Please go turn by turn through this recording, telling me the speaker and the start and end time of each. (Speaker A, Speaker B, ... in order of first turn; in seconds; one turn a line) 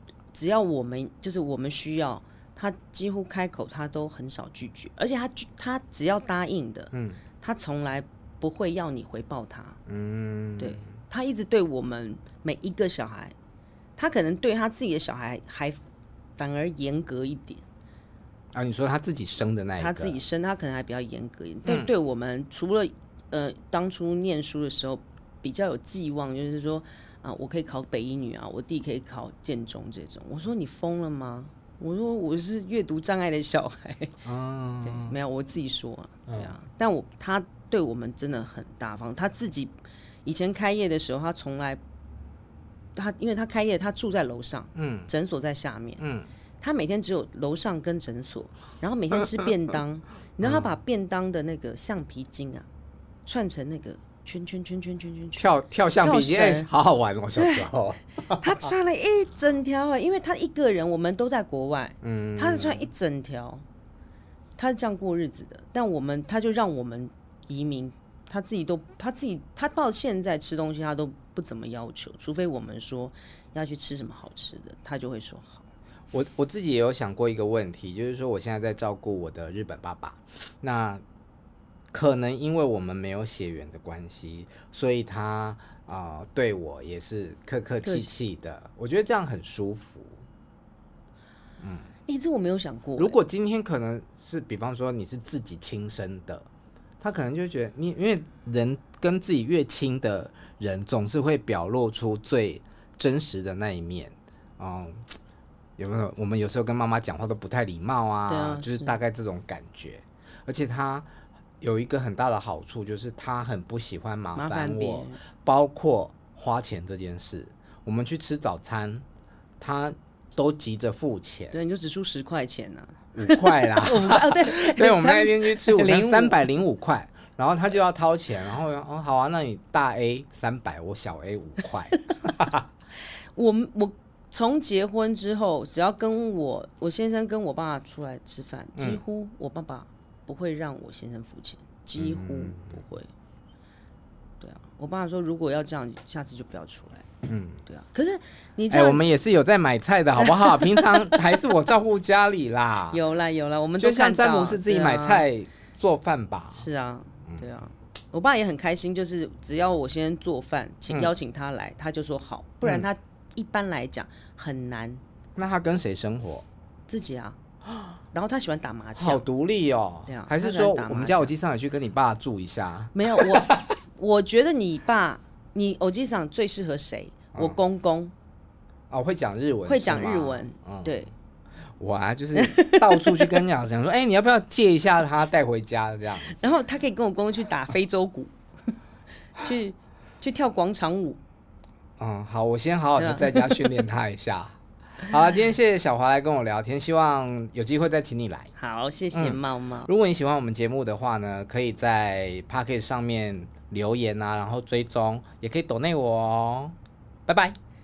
Speaker A: 0.3-9.8
Speaker B: 6.9-7.2
Speaker B: 9.9-10.9
Speaker A: 10.6-13.3
Speaker A: 14.0-15.8
Speaker A: 16.4-17.6
Speaker B: 18.5-20.2
Speaker A: 19.8-34.2
Speaker B: 34.2-35.1
Speaker A: 34.9-39.7
Speaker B: 36.3-36.5
Speaker A: 40.2-41.8
Speaker A: 43.0-46.0
Speaker B: 44.8-45.1
Speaker B: 46.0-46.3
Speaker A: 46.6-52.7
Speaker B: 50.4-50.8
Speaker A: 53.3-55.5
Speaker B: 55.4-58.7
Speaker A: 56.0-56.7
Speaker A: 57.4-57.7
Speaker A: 58.3-63.6
Speaker B: 62.0-62.9
Speaker A: 64.6-75.7
Speaker B: 76.1-81.0
Speaker B: 81.9-90.2
Speaker A: 87.8-88.1
Speaker B: 91.6-91.9
Speaker A: 92.1-93.2
Speaker B: 93.0-96.5
Speaker B: 97.0-105.1
Speaker B: 105.8-111.1
Speaker A: 108.3-109.0
Speaker B: 111.6-119.0
Speaker A: 114.3-115.2
Speaker B: 119.6-121.5
Speaker A: 121.5-126.4
Speaker B: 123.1-132.7
Speaker A: 133.3-143.1
Speaker B: 138.8-139.0
Speaker B: 142.0-142.8
Speaker A: 144.4-147.1
Speaker B: 147.3-147.6
Speaker A: 147.7-149.0
Speaker B: 148.7-153.0
Speaker A: 150.2-151.4
Speaker A: 152.9-155.3
Speaker B: 153.8-156.7
Speaker A: 156.5-165.0
Speaker B: 162.6-162.9
Speaker B: 165.4-166.5
Speaker A: 166.9-167.4
Speaker A: 168.1-169.2
Speaker B: 169.0-173.7
Speaker A: 170.1-171.3
Speaker A: 172.9-178.1
Speaker B: 178.9-181.1
Speaker A: 179.7-181.1
Speaker B: 181.8-186.4
Speaker A: 182.3-183.4
Speaker A: 186.3-188.3
Speaker A: 189.4-191.2
Speaker B: 192.0-198.5
Speaker A: 193.0-193.8
Speaker A: 198.6-199.9
Speaker B: 199.1-206.7
Speaker B: 207.3-207.6